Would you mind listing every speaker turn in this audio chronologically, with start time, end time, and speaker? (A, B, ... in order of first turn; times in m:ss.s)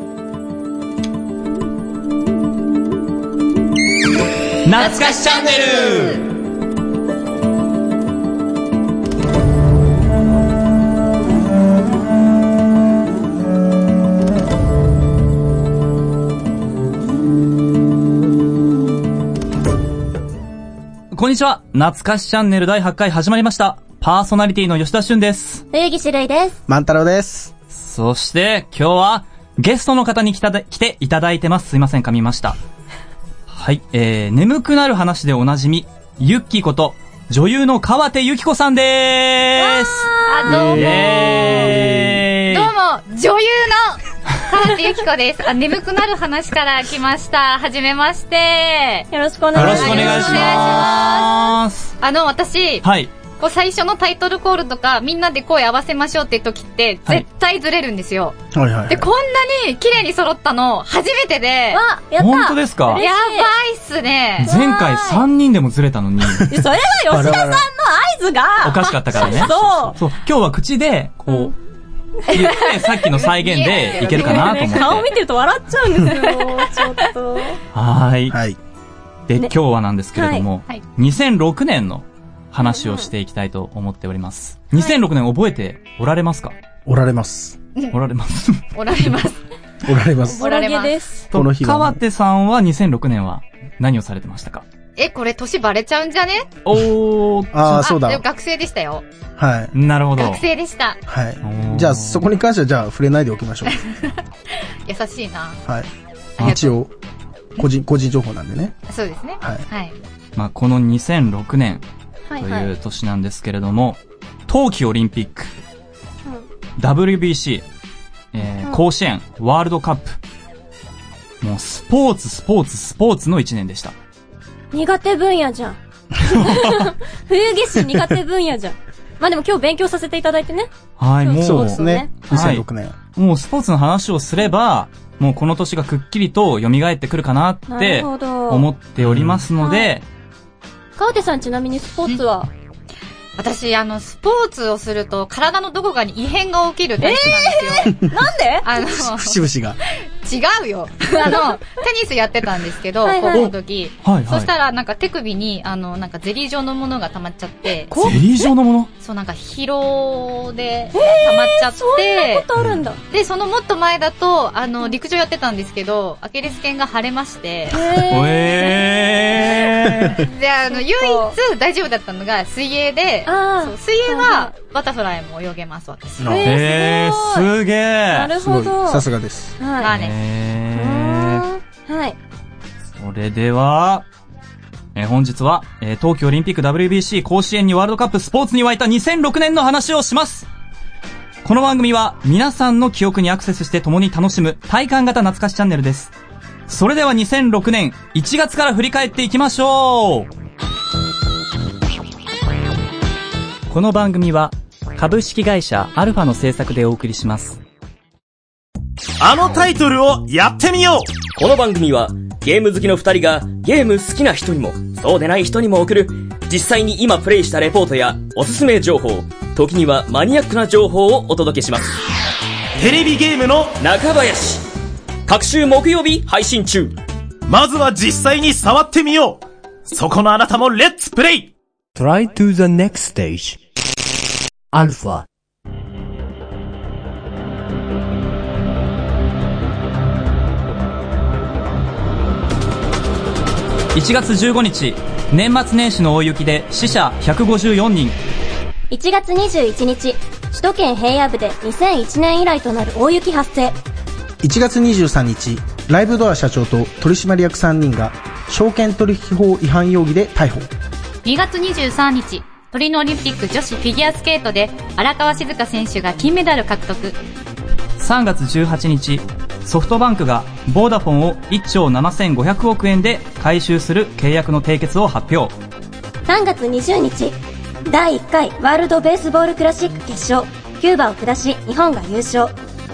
0:04.6-0:06.2 A
0:04.8-0:06.2 B
0:21.1-0:25.6 A
0:25.7-0:26.6 C
0:26.7-0:27.5 D
0:27.7-0:32.6 A
0:33.5-0:42.7 A
0:39.6-0:41.9 C
0:40.3-0:41.7 B
0:42.5-0:51.4 B
0:49.1-0:50.9 C
0:49.5-0:51.9 A
0:52.0-0:52.8 B
0:52.8-0:53.1 A
0:53.4-0:58.4 B
0:58.5-0:59.1 D
0:58.9-1:01.8 B
1:01.7-1:03.5 C
1:02.2-1:03.0 A
1:03.0-1:04.5 B
1:04.4-1:06.5 A
1:04.4-1:05.2 C
1:06.5-1:10.0 C
1:07.1-1:07.7 D
1:08.6-1:11.5 A
1:11.3-1:11.5 C
1:12.3-1:15.0 A
1:13.1-1:15.1 B
1:13.9-1:17.6 C
1:16.1-1:16.6 B
1:17.7-1:18.4 A
1:18.3-1:18.6 D
1:19.3-1:26.5 A
1:20.1-1:20.4 C
1:22.6-1:23.1 C
1:26.8-1:27.6 D
1:27.9-1:29.1 A
1:28.7-1:29.4 B
1:29.8-1:30.4 D
1:30.2-1:31.3 C
1:30.4-1:31.0 B
1:31.3-1:34.6 A
1:31.3-1:32.0 D
1:35.0-1:36.5 B
1:36.6-1:37.5 A
1:37.5-1:38.2 D
1:37.6-1:39.0 B
1:39.4-1:39.7 D
1:39.7-1:40.4 A
1:40.2-1:41.0 B
1:41.1-1:43.8 D
1:41.4-1:42.3 A
1:43.7-1:44.1 B
1:44.8-1:45.6 B
1:45.6-1:46.9 D
1:46.4-1:46.7 A
1:47.6-1:48.8 D
1:48.9-1:50.0 B
1:50.4-1:51.8 A
1:52.3-1:52.7 C
1:52.4-1:55.5 A
1:56.8-1:57.6 A
1:58.3-2:00.2 A
2:01.4-2:03.9 A
2:04.7-2:12.5 C
2:06.4-2:06.8 A
2:11.0-2:20.0 A
2:11.4-2:13.0 D
2:17.7-2:18.7 C
2:19.0-2:19.4 D
2:19.6-2:19.9 C
2:21.0-2:22.5 C
2:23.4-2:28.0 B
2:27.0-2:28.7 C
2:28.6-2:29.4 B
2:28.7-2:29.8 D
2:30.2-2:37.9 B
2:31.1-2:31.4 C
2:33.0-2:33.5 C
2:33.3-2:34.5 A
2:37.9-2:38.5 C
2:38.0-2:38.9 A
2:39.0-2:42.5 B
2:40.9-2:43.0 C
2:43.1-2:47.8 B
2:47.7-2:48.9 C
2:48.1-2:50.2 A
2:50.2-2:56.4 B
2:50.7-2:51.4 C
2:53.2-2:54.5 C
2:56.2-2:56.6 D
2:56.3-2:57.5 C
2:56.4-2:58.3 A
2:58.1-2:59.0 C
2:58.4-2:59.5 D
2:59.6-2:59.9 C
2:59.8-3:00.1 B
2:59.8-3:01.4 A
3:00.7-3:02.2 C
3:03.0-3:04.1 A
3:04.9-3:10.5 A
3:11.4-3:16.1 A
3:16.7-3:20.3 A
3:23.7-3:27.6 A
3:29.2-3:31.1 E
3:31.4-3:41.9 F
3:42.8-3:43.8 E
3:43.8-3:44.7 F
3:45.3-3:47.0 F
3:47.5-3:51.5 E
3:52.0-3:53.6 G
3:54.7-3:55.2 G
4:03.9-4:08.1 A
4:08.9-4:13.8 C
4:14.4-4:20.7 D
4:21.2-4:27.2 B
4:28.0-4:35.5 A
4:36.2-4:42.5 C